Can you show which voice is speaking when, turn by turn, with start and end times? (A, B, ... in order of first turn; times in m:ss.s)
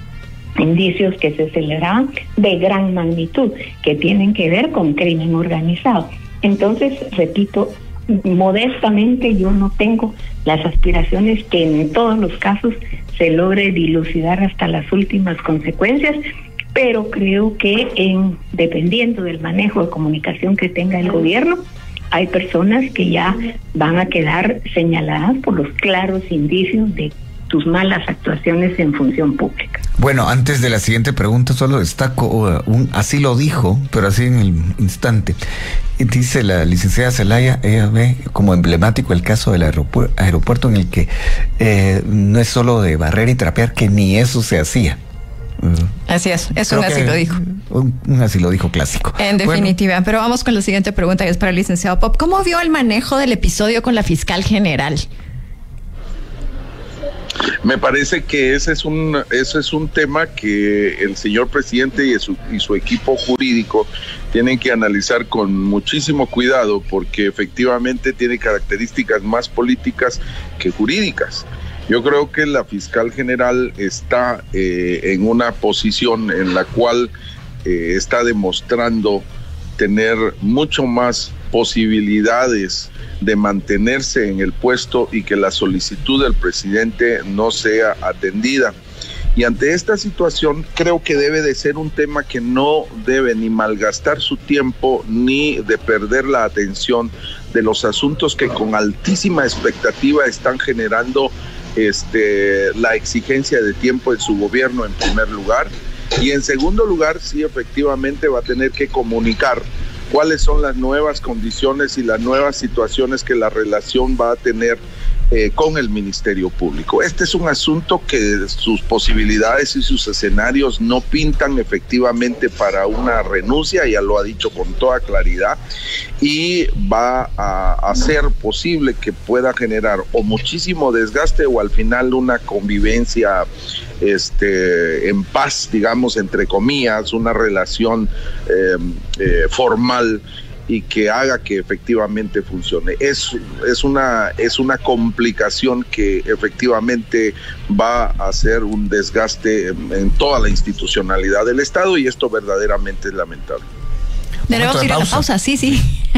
0:00.6-0:16.2 A
0:16.7-0:29.8 A
0:30.0-0:35.4 B
0:36.0-0:45.0 B
0:45.6-0:45.9 B
0:46.1-0:47.4 C
0:46.6-0:49.7 B
0:49.2-0:55.1 C
0:57.6-1:17.1 D
1:17.6-1:19.2 D
1:19.8-1:28.7 D
1:29.4-2:05.6 D
2:06.2-2:13.4 D
2:14.0-2:33.6 D
2:34.5-2:36.0 C
2:34.5-2:35.3 B